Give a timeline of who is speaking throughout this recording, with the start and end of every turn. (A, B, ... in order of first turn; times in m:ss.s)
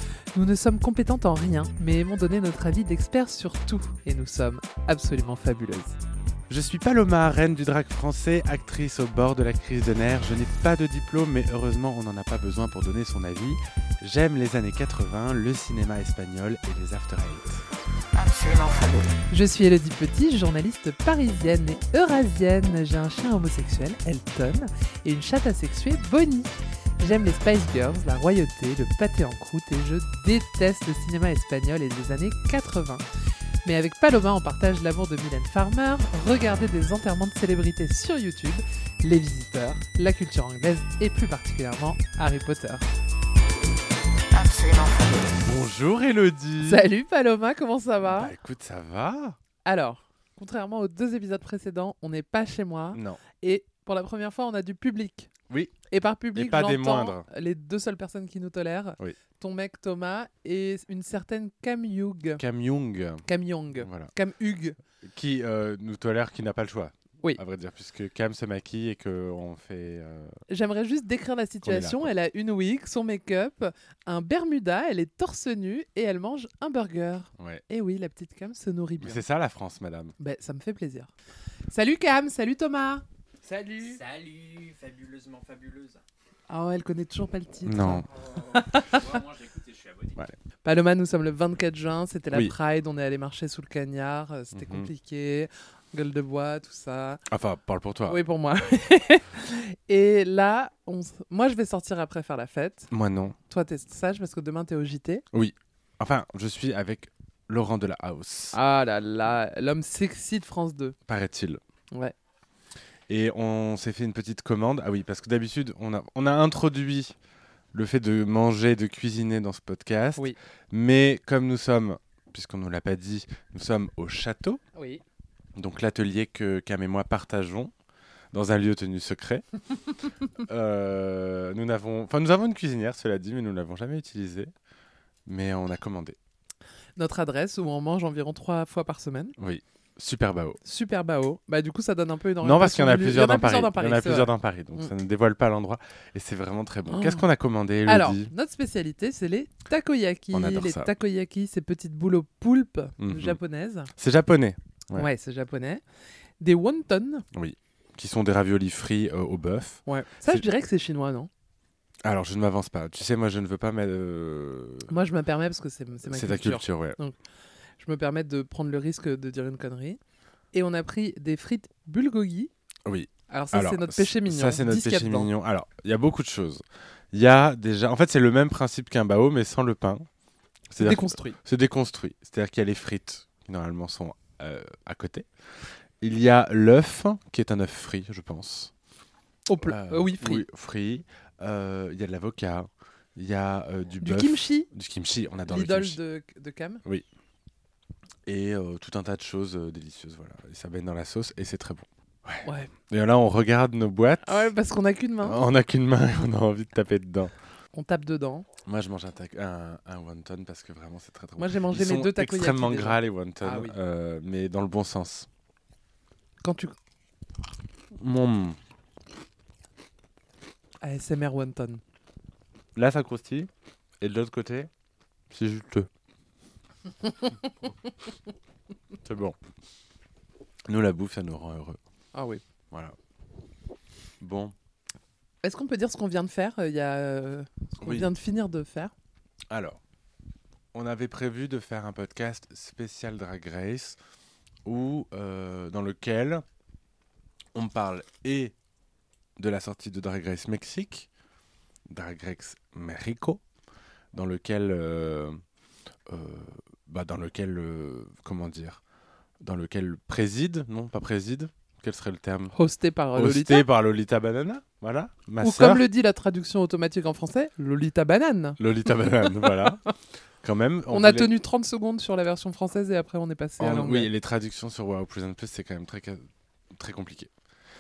0:00.3-0:06.0 A
0:06.5-0:17.6 B
0:18.1-0:19.2 C
0:19.3-0:33.0 A
0:33.6-0:42.9 A
0:44.3-0:45.4 C
0:45.4-0:46.9 B
0:46.6-0:48.3 A
0:48.0-0:49.4 B
0:49.6-0:55.3 A
0:52.9-0:53.2 B
0:55.5-0:55.8 B
0:55.9-1:02.4 A
0:56.4-0:57.3 B
1:02.4-1:03.2 B
1:03.3-1:04.8 A
1:03.8-1:04.1 B
1:05.0-1:10.4 B
1:10.5-1:19.2 A
1:11.6-1:12.1 B
1:17.4-1:17.6 B
1:19.0-1:20.2 B
1:20.2-1:21.1 A
1:21.7-1:24.0 A
1:23.8-1:26.0 D
1:26.5-1:29.0 A
1:27.6-1:28.1 B
1:28.2-1:30.2 D
1:30.6-1:37.2 A
1:34.5-1:34.9 B
1:37.3-1:38.2 B
1:38.0-1:42.9 A
1:42.9-1:43.4 B
1:43.5-1:45.2 A
1:45.3-1:48.6 B
1:48.5-1:51.0 A
1:51.1-1:51.6 B
1:53.1-1:57.2 B
1:57.7-2:04.6 B
2:04.8-2:05.0 A
2:05.6-2:07.7 B
2:08.3-2:09.4 B
2:10.4-2:14.5 B
2:15.3-2:16.2 B
2:17.0-2:19.4 A
2:19.4-2:20.6 B
2:20.6-2:24.9 A
2:22.4-2:28.3 B
2:26.9-2:27.2 A
2:27.9-2:33.9 A
2:30.3-2:30.9 B
2:33.0-2:33.4 B
2:33.9-2:35.1 B
2:34.9-2:35.8 A
2:36.4-2:37.3 A
2:37.3-2:40.4 B
2:39.9-2:41.3 A
2:42.0-2:44.9 B
2:44.9-2:47.2 A
2:46.1-2:47.0 B
2:47.8-2:50.0 A
2:50.5-2:52.5 A
2:52.9-3:00.1 B
2:53.3-2:55.3 A
3:00.7-3:05.3 B
3:00.8-3:01.4 A
3:06.0-3:08.7 B
3:09.5-3:10.4 A
3:09.6-3:16.0 B
3:14.0-3:14.7 A
3:15.5-3:16.8 A
3:18.2-3:24.5 B
3:22.4-3:22.7 A
3:24.2-3:25.4 A
3:25.2-3:27.3 B
3:27.7-3:28.5 A
3:28.6-3:35.3 B
3:31.4-3:33.8 A
3:36.4-3:36.8 A
3:38.0-3:38.6 B
3:40.8-3:41.8 A
3:42.8-3:44.7 B
3:45.3-3:45.9 B
3:49.0-3:49.4 B
3:50.7-3:51.8 B
3:52.1-3:52.4 A
3:52.7-3:53.0 B
3:54.2-3:54.6 B
3:55.4-3:58.9 A
3:57.8-3:58.1 B
3:59.5-3:59.8 B
4:00.7-4:04.0 B
4:04.6-4:06.4 B
4:07.5-4:08.5 B
4:09.4-4:11.1 B
4:11.9-4:13.4 B
4:14.1-4:15.4 B
4:16.1-4:18.8 B
4:19.4-4:22.6 B
4:22.5-4:23.6 A
4:23.1-4:25.9 B
4:25.4-4:29.8 A
4:28.6-4:29.8 B
4:30.4-4:31.3 B
4:30.9-4:34.1 A
4:33.6-4:37.3 B